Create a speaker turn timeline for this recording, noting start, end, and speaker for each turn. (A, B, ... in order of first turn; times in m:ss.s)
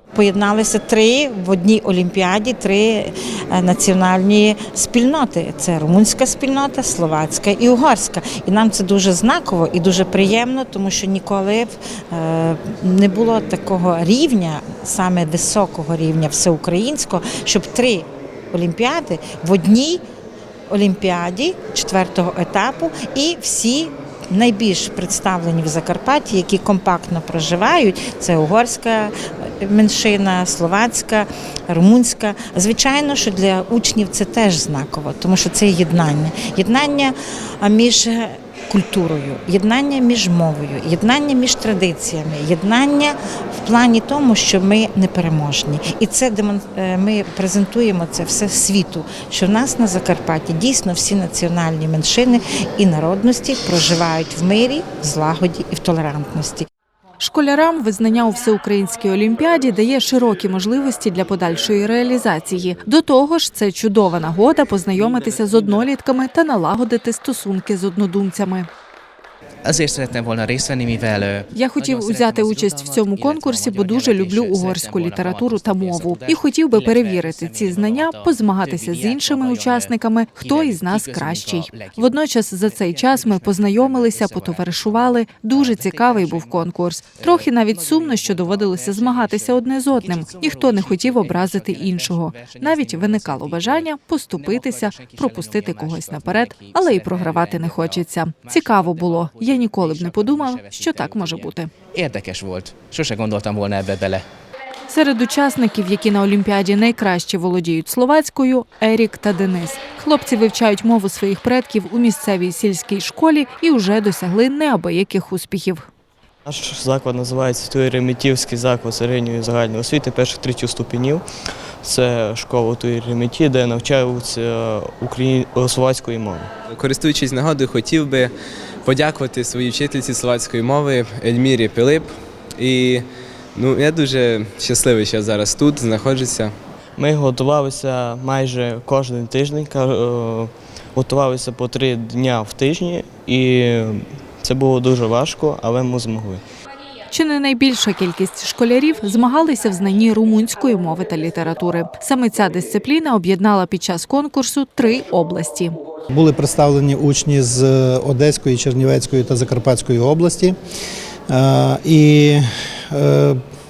0:00.1-0:20.0 A
0:20.7-0:56.6 A
0:57.2-1:08.7 B
1:09.6-1:26.6 C
1:11.5-1:41.7 B
1:27.2-1:44.2 C
1:44.9-1:55.9 B
1:56.4-2:01.2 D
2:01.8-2:06.5 D
2:06.7-2:08.3 E
2:08.8-2:16.6 E
2:17.0-2:26.4 D
2:27.1-2:35.7 B
2:36.1-2:40.5 F
2:41.3-2:43.4 F